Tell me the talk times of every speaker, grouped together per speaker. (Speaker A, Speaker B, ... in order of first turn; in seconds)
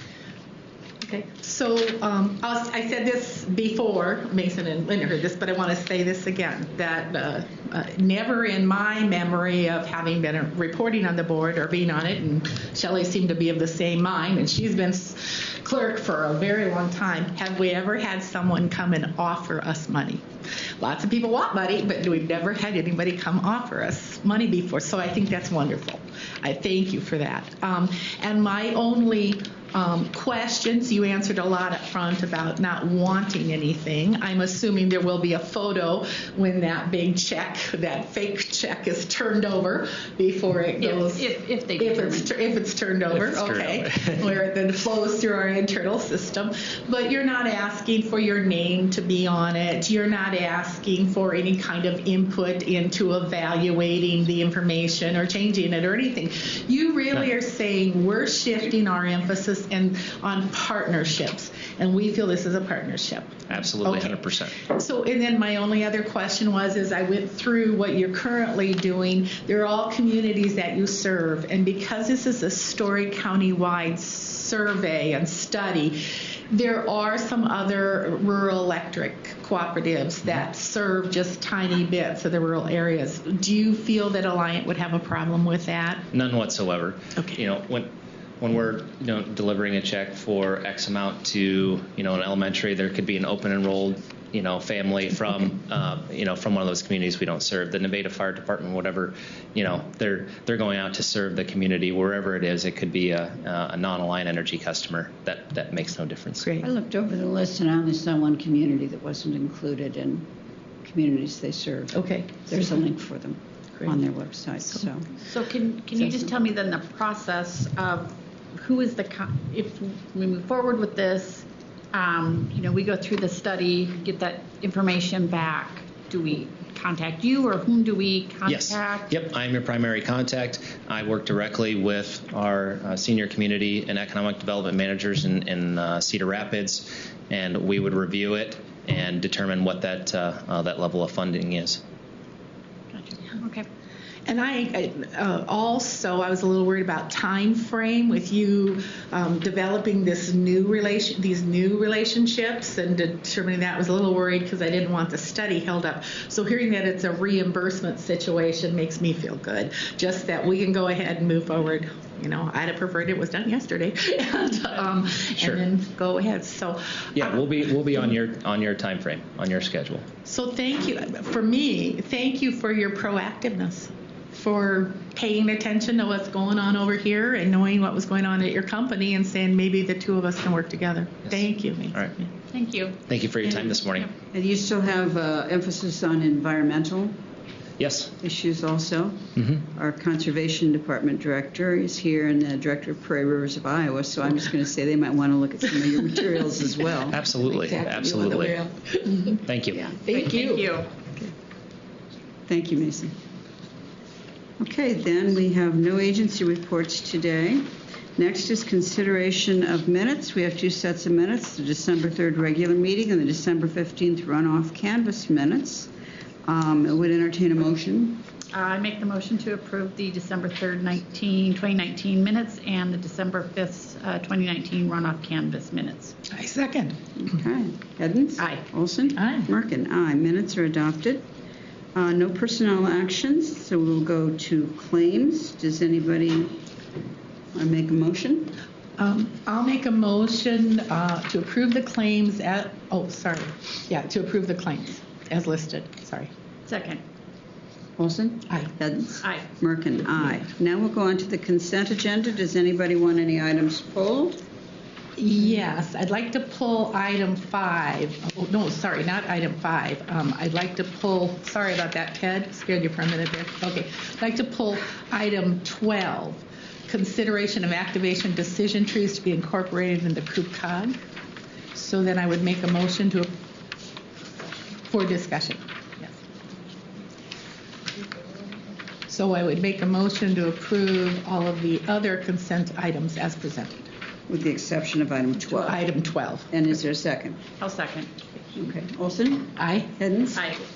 Speaker A: 1.0-20.2, 20.8-76.0, 76.5-86.1, 106.4-106.7, 111.9-112.8, 144.3-167.4, 170.2-182.3, 197.5-199.4, 200.0-201.3, 226.3-227.2, 229.2-229.5, 239.0-246.3, 248.5-248.7, 255.2-271.0, 271.7-273.3, 274.9-276.1, 279.1-283.9, 285.4-286.5, 289.6-289.9
Speaker B: 40.8-42.3, 115.2-129.1, 142.9-143.7, 182.5-183.0, 199.8-200.9, 218.5-226.1, 228.4-228.6, 246.7-247.0, 287.6-288.1, 290.3-290.6
Speaker C: 43.1-44.3, 63.5-64.6, 86.1-87.9, 88.4-106.5, 128.5-141.8, 167.2-170.1, 183.1-184.1, 187.8-188.1, 189.4-189.6, 197.1-198.6, 199.5-199.8
Speaker D: 106.6-110.3, 110.8-115.2, 116.0-116.3, 183.4-187.2, 188.2-197.2, 202.5-203.1, 204.6-215.9, 216.4-218.2, 227.2-231.2, 231.9-236.6, 237.5-238.6, 248.0-254.4, 284.3-285.8, 286.5-287.4, 288.6-290.5